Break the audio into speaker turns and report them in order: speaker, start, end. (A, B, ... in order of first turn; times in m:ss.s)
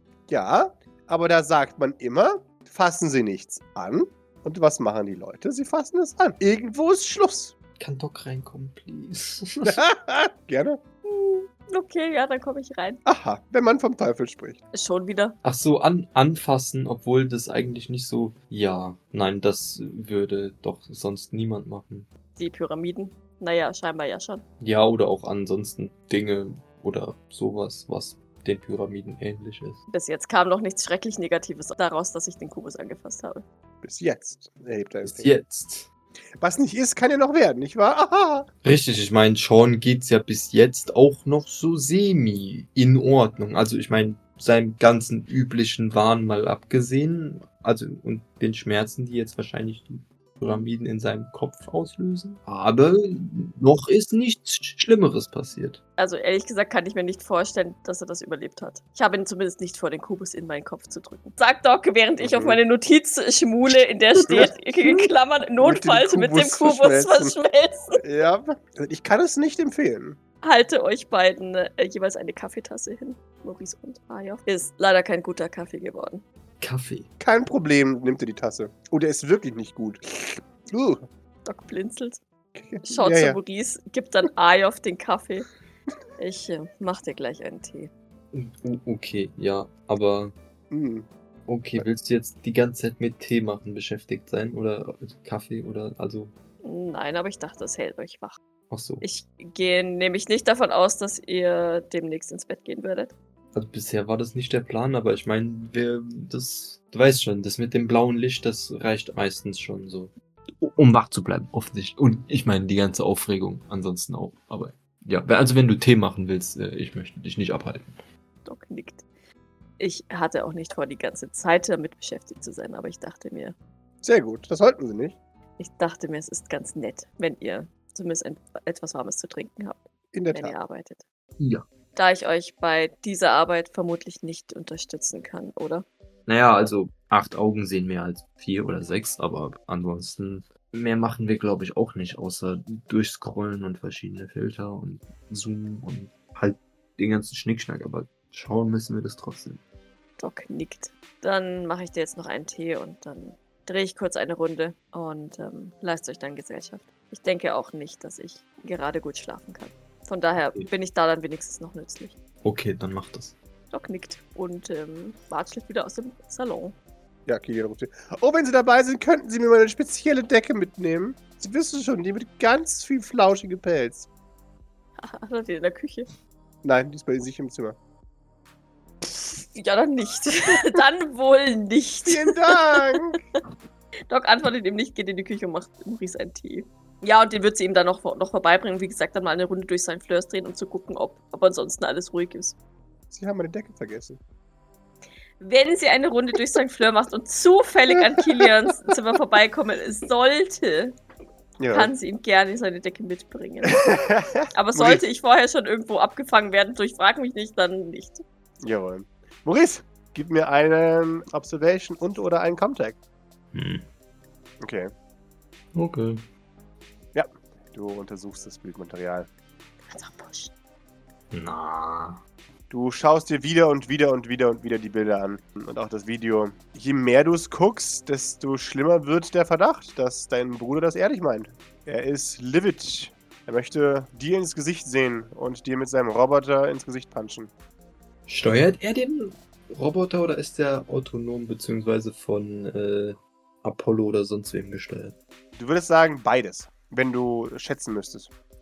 0:00.3-0:07.5 A
0:07.8-0:09.8 B
0:09.6-0:10.8 A
0:11.0-0:13.0 C
0:13.0-0:14.6 A
0:14.7-0:15.4 C
0:15.4-0:22.1 B
0:22.4-0:24.4 C
0:24.6-0:29.8 B
0:29.9-0:33.4 C
0:33.8-0:35.3 A
0:35.0-0:35.9 B
0:36.4-0:38.5 A
0:38.6-0:55.8 B
0:56.0-1:08.0 C
1:02.2-1:02.6 A
1:04.2-1:05.1 A
1:05.6-1:07.4 A
1:08.0-1:10.2 A
1:10.4-1:16.2 C
1:16.6-1:17.1 B
1:17.2-1:21.0 A
1:21.4-1:22.2 C
1:22.5-1:23.4 A
1:22.8-1:25.5 C
1:26.2-1:27.9 C
1:28.3-1:30.3 B
1:30.7-1:31.1 A
1:31.5-1:36.3 B
1:36.6-1:38.4 C
1:38.7-1:39.0 B
1:39.0-1:43.1 C
1:43.5-1:58.0 B
1:58.4-1:59.0 C
1:59.8-2:03.5 C
2:04.0-2:05.2 A
2:05.6-2:11.0 C
2:10.1-2:10.5 A
2:11.4-2:11.6 B
2:11.9-2:15.8 C
2:16.3-2:29.6 B
2:30.2-2:42.2 C
2:40.4-2:40.7 B
2:42.4-2:43.4 B
2:43.7-2:46.8 C
2:47.3-2:54.1 A
2:55.0-2:56.1 C
2:56.6-2:57.8 A
2:59.0-3:03.2 C
3:02.0-3:03.2 A
3:04.1-3:12.6 C
3:13.1-3:14.2 A
3:15.4-3:21.0 C
3:18.1-3:18.5 A
3:21.6-3:21.9 A
3:21.7-3:23.9 C
3:23.7-3:25.0 A
3:24.5-3:28.2 C
3:28.6-3:33.0 A
3:33.5-3:33.8 B
3:34.6-3:34.9 A
3:35.7-3:36.2 B
3:37.1-3:39.3 A
3:39.9-3:40.5 C
3:41.3-3:42.2 B
3:42.7-3:57.5 A
3:58.3-4:05.2 B
4:05.6-4:08.3 A